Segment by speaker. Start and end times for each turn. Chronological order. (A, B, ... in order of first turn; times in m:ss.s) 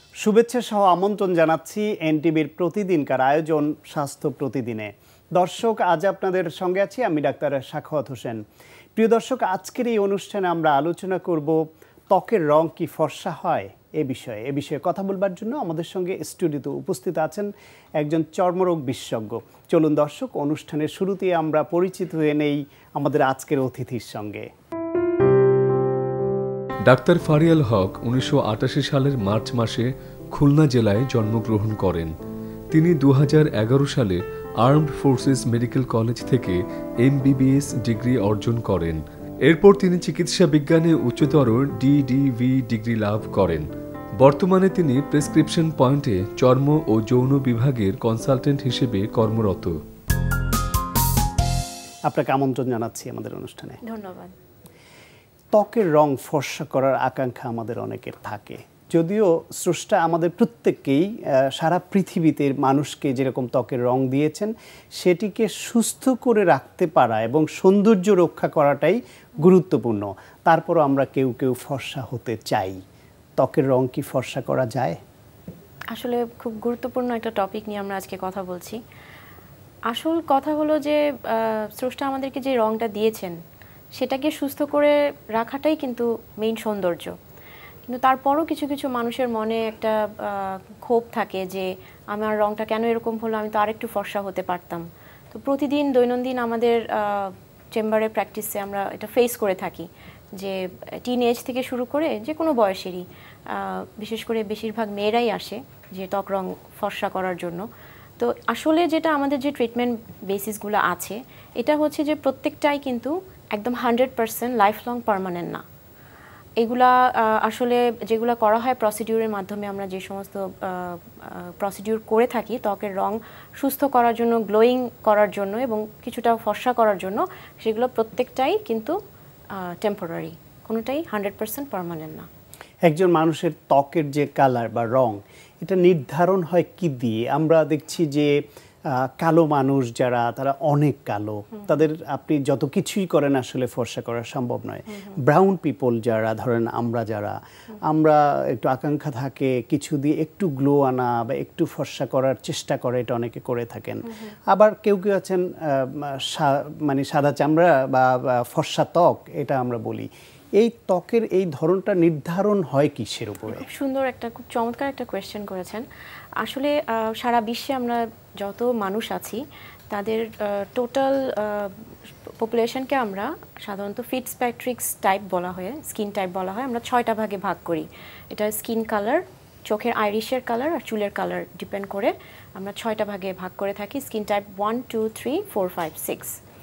0:00.2-0:08.4 A
0:09.0-0:24.5 A
0:26.9-0:32.1 B
0:32.7-0:43.7 B
0:44.2-0:49.8 B
0:52.1-0:53.8 A
0:53.8-0:54.3 C
0:55.5-1:12.8 A
1:13.4-1:15.0 A
1:15.9-1:18.8 C
1:19.9-1:23.4 C
1:24.0-1:27.2 C
1:27.9-1:47.6 C
1:48.2-1:55.6 C
1:56.6-2:09.0 C
2:09.6-2:12.3 C
2:12.9-2:18.3 A
2:18.9-2:40.1 A
2:40.6-2:43.7 A
2:43.5-2:45.8 C
2:46.4-2:51.9 C
2:52.4-3:06.4 C